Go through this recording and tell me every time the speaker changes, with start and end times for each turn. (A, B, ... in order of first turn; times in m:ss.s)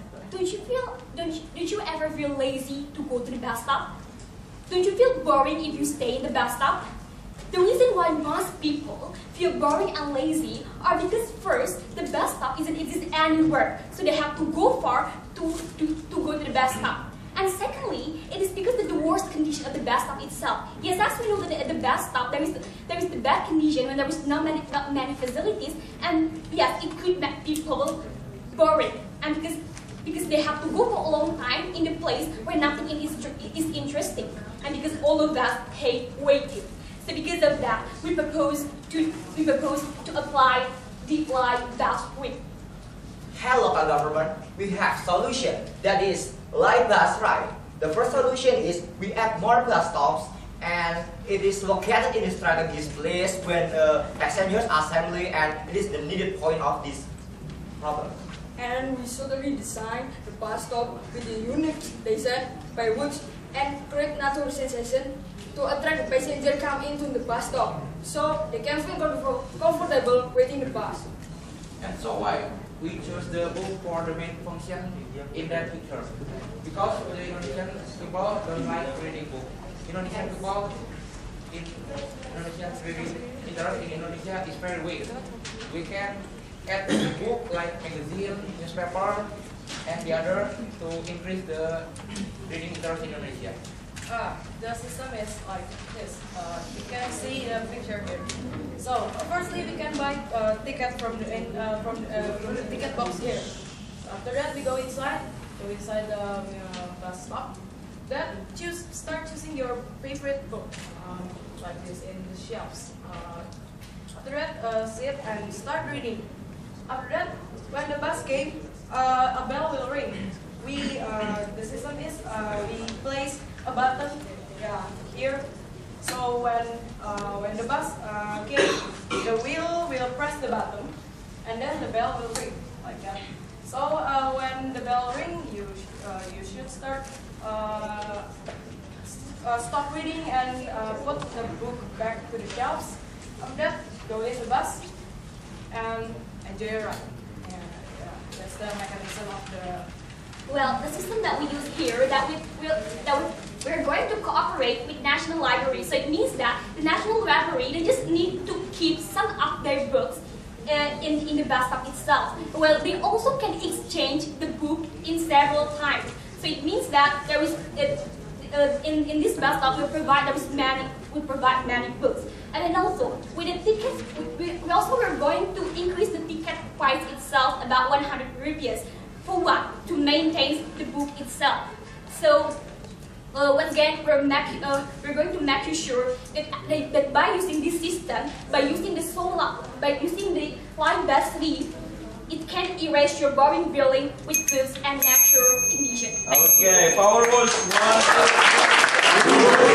0:00.3-0:03.9 A
0:04.7-0:06.8 A
0:07.5-0:42.4 A
0:43.3-0:57.1 B
0:57.8-0:58.2 B
0:58.6-1:11.1 C
1:11.8-1:33.6 D
1:34.0-1:56.3 E
1:56.9-2:18.3 E
2:19.0-2:25.0 E
2:25.7-2:29.9 E
2:30.5-3:02.6 A
3:03.3-3:11.7 A
3:12.3-3:16.3 A
3:16.4-3:18.4 F
3:16.5-3:16.8 D